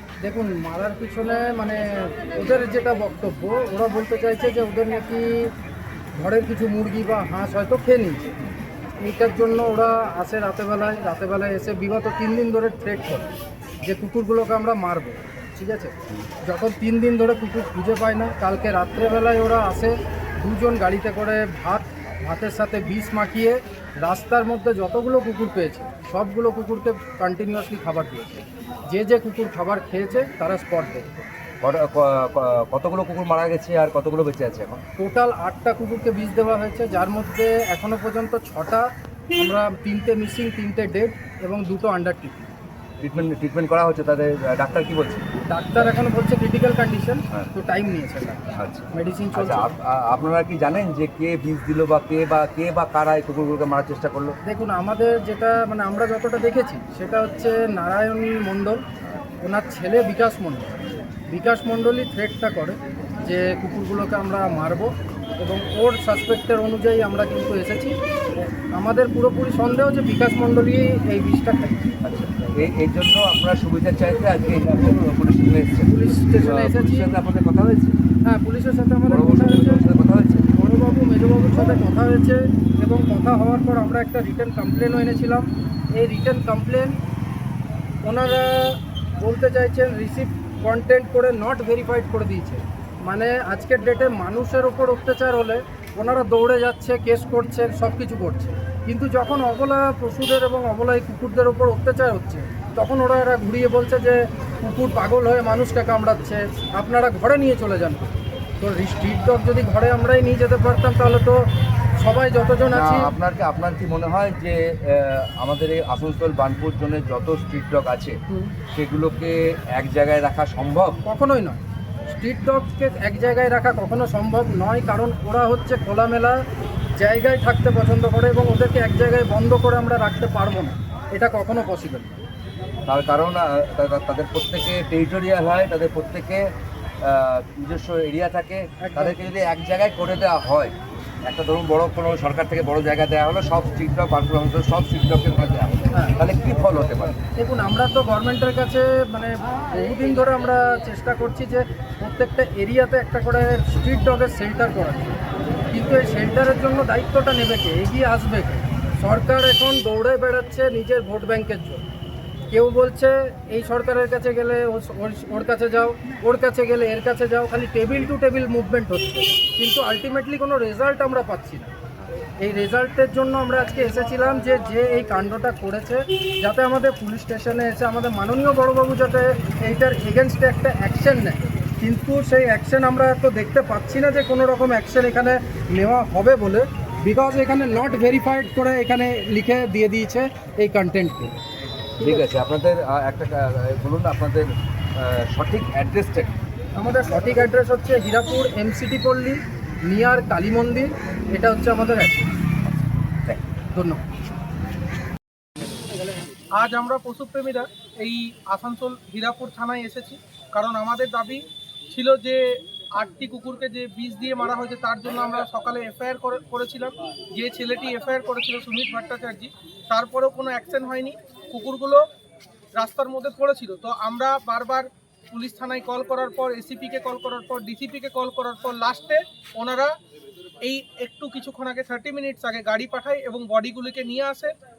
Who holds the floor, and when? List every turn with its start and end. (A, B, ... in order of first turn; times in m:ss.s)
0:00.2-0:05.5 A
0:06.2-0:08.2 A
0:09.0-0:13.3 A
0:13.8-0:31.2 A
0:31.6-0:34.8 B
0:35.0-0:42.5 A
0:43.0-0:45.2 B
0:45.5-0:49.7 A
0:48.5-0:54.4 B
0:54.4-0:58.8 A
0:59.4-1:00.8 A
1:01.3-1:12.0 A
1:12.0-1:18.0 B
1:15.9-1:17.1 A
1:18.2-1:19.9 A
1:19.1-1:20.5 B
1:20.5-1:27.0 A
1:28.0-1:51.4 A
1:52.0-1:53.1 A
1:52.7-1:58.2 B
1:58.3-1:58.5 A
1:58.7-2:01.0 B
2:01.0-2:01.6 A
2:02.1-2:06.4 A
2:07.0-2:12.2 A
2:12.9-2:16.5 B
2:17.0-2:27.2 B
2:18.8-2:19.2 A
2:27.4-2:35.2 A
2:35.7-2:41.8 A
2:42.5-2:51.7 A
2:52.3-3:11.4 A
3:12.0-3:16.3 B
3:12.0-3:12.3 A
3:16.8-3:22.3 A
3:23.7-3:24.0 A
3:26.6-3:42.0 C
3:42.8-3:49.9 C
3:50.6-3:54.5 C